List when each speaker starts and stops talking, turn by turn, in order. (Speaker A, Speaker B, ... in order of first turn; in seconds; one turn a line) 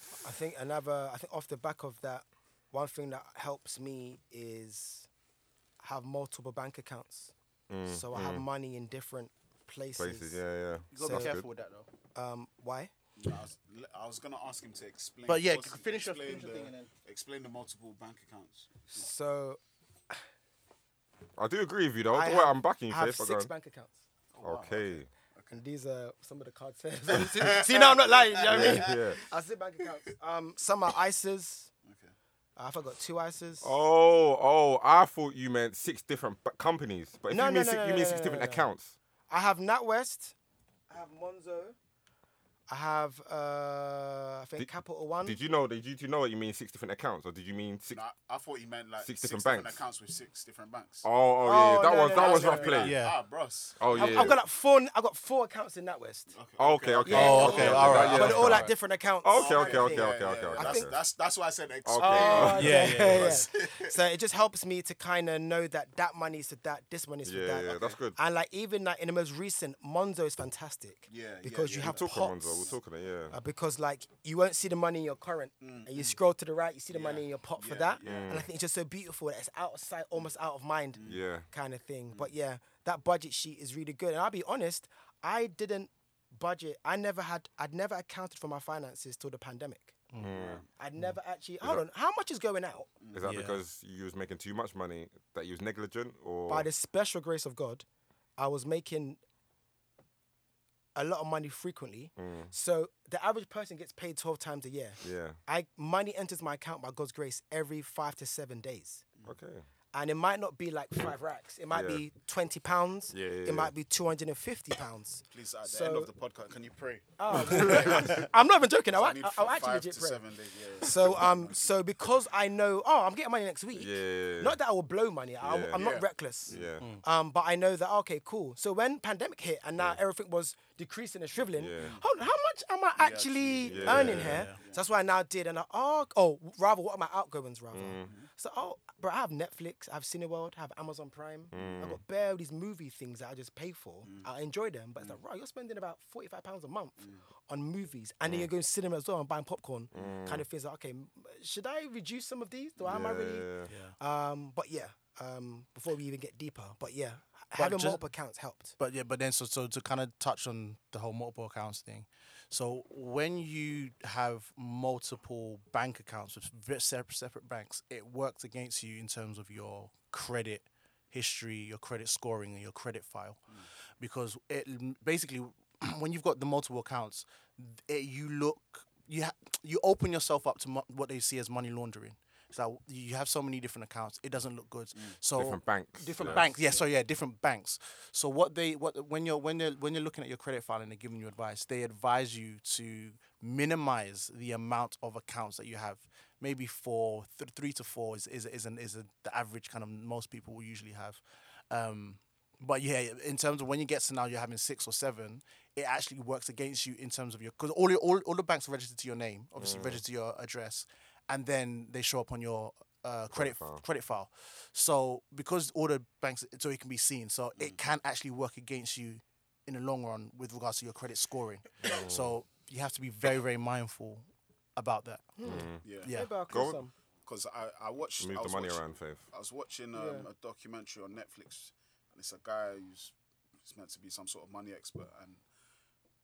Speaker A: 0.2-5.1
Speaker A: 5.8-7.3
Speaker B: 7.7-8.4
Speaker A: 7.8-10.4
Speaker B: 10.0-11.4
Speaker C: 10.9-11.9
Speaker A: 10.9-11.3
Speaker A: 12.1-12.9
Speaker D: 13.2-19.1
Speaker C: 15.2-16.9
Speaker A: 18.9-19.6
Speaker B: 21.4-23.5
Speaker A: 22.1-24.0
Speaker D: 24.3-25.6
Speaker B: 24.4-25.1
Speaker A: 25.5-31.7
Speaker D: 27.1-29.2
Speaker B: 28.5-29.2
Speaker D: 31.9-32.1
Speaker A: 32.6-33.7
Speaker B: 33.6-38.9
Speaker A: 37.3-38.7
Speaker A: 39.3-40.3
Speaker A: 40.9-41.8
Speaker A: 42.7-45.4
Speaker B: 45.2-48.0
Speaker D: 47.9-51.1
Speaker B: 49.0-49.8
Speaker B: 51.0-53.0
Speaker A: 51.4-52.8
Speaker D: 52.1-54.4
Speaker C: 52.8-53.1
Speaker B: 53.8-54.4
Speaker A: 53.9-56.3
Speaker D: 56.3-58.6
Speaker B: 56.6-61.0
Speaker A: 57.0-60.9
Speaker C: 57.1-58.6
Speaker D: 59.3-64.0
Speaker B: 61.8-63.1
Speaker A: 62.0-72.6
Speaker C: 62.5-63.5
Speaker B: 67.2-68.2
Speaker D: 71.1-72.8
Speaker B: 71.8-73.3
Speaker A: 73.3-90.0
Speaker D: 75.6-76.2
Speaker D: 76.9-78.4
Speaker B: 78.0-78.5
Speaker B: 81.0-81.5
Speaker B: 90.2-90.6
Speaker D: 90.2-90.7
Speaker A: 90.8-92.9
Speaker B: 93.1-96.7
Speaker C: 93.2-93.6
Speaker A: 96.5-97.8
Speaker A: 98.4-99.2
Speaker A: 100.9-109.0
Speaker B: 102.2-102.5
Speaker B: 105.0-105.4
Speaker B: 109.2-109.7
Speaker A: 109.9-116.1
Speaker B: 111.7-112.0
Speaker B: 113.1-113.7
Speaker D: 115.3-118.3
Speaker A: 117.2-120.2
Speaker C: 117.3-118.1
Speaker D: 118.9-121.7
Speaker A: 120.8-153.5
Speaker B: 123.7-124.6
Speaker B: 125.4-125.9
Speaker D: 125.7-126.8
Speaker B: 126.5-126.8
Speaker B: 131.6-132.0
Speaker D: 131.8-132.0
Speaker D: 133.0-134.8
Speaker B: 133.7-134.5
Speaker C: 133.9-134.6
Speaker B: 137.7-138.1
Speaker B: 141.5-142.0
Speaker D: 147.0-147.2
Speaker B: 149.9-150.4
Speaker B: 152.8-153.7
Speaker C: 153.7-153.9
Speaker A: 154.0-158.7
Speaker C: 157.5-158.0
Speaker C: 158.8-201.2
Speaker B: 185.3-186.5
Speaker D: 186.2-186.8
Speaker C: 201.7-224.2
Speaker B: 209.6-210.0
Speaker B: 213.3-213.8
Speaker D: 217.6-217.8
Speaker B: 221.8-222.4
Speaker C: 224.8-225.4
Speaker A: 225.4-226.9
Speaker B: 225.4-225.8
Speaker D: 225.8-226.1
Speaker C: 226.0-226.3
Speaker B: 226.5-226.8
Speaker D: 227.2-235.4
Speaker B: 228.2-229.3
Speaker A: 229.9-230.3